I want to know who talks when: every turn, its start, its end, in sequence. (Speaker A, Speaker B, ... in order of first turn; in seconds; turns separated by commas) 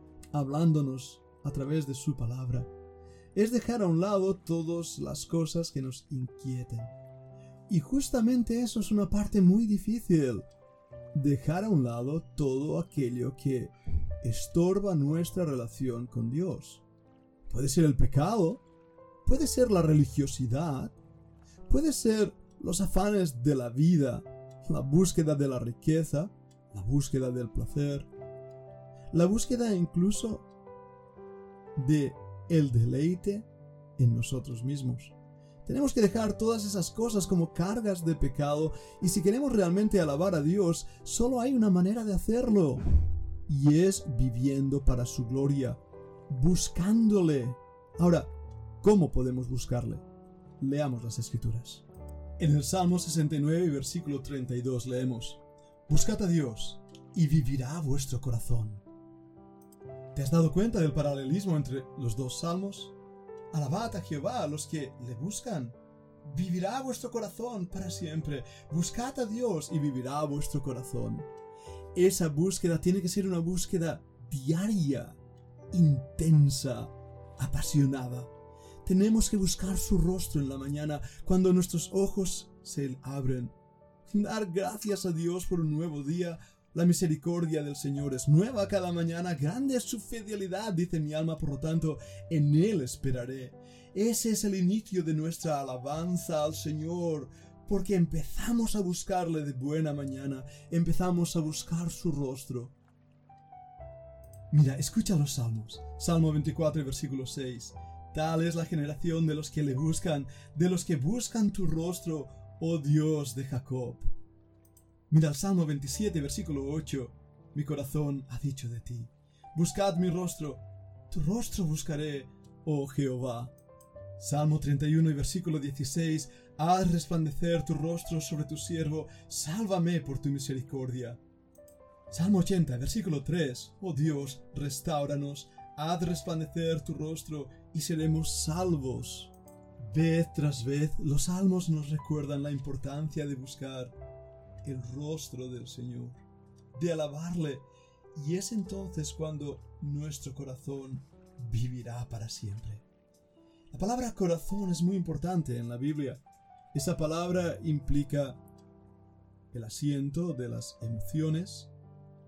Speaker A: 0.3-2.7, Speaker A: 3.4-7.0, Speaker A: 7.7-10.5, Speaker A: 11.1-16.8, Speaker A: 17.5-18.6, Speaker A: 19.2-21.0, Speaker A: 21.7-28.1, Speaker A: 29.1-30.5, Speaker A: 31.8-33.5, Speaker A: 34.0-35.1, Speaker A: 35.6-42.9, Speaker A: 43.5-48.3, Speaker A: 48.8-50.0, Speaker A: 50.6-51.9, Speaker A: 52.4-58.8, Speaker A: 60.1-62.9, Speaker A: 63.5-71.3, Speaker A: 71.9-75.2, Speaker A: 75.7-78.3, Speaker A: 78.8-83.5, Speaker A: 84.1-102.8, Speaker A: 104.5-114.1, Speaker A: 115.1-123.5, Speaker A: 124.2-131.2, Speaker A: 132.1-143.9, Speaker A: 144.6-152.9, Speaker A: 153.7-156.2, Speaker A: 156.7-158.4, Speaker A: 159.5-161.7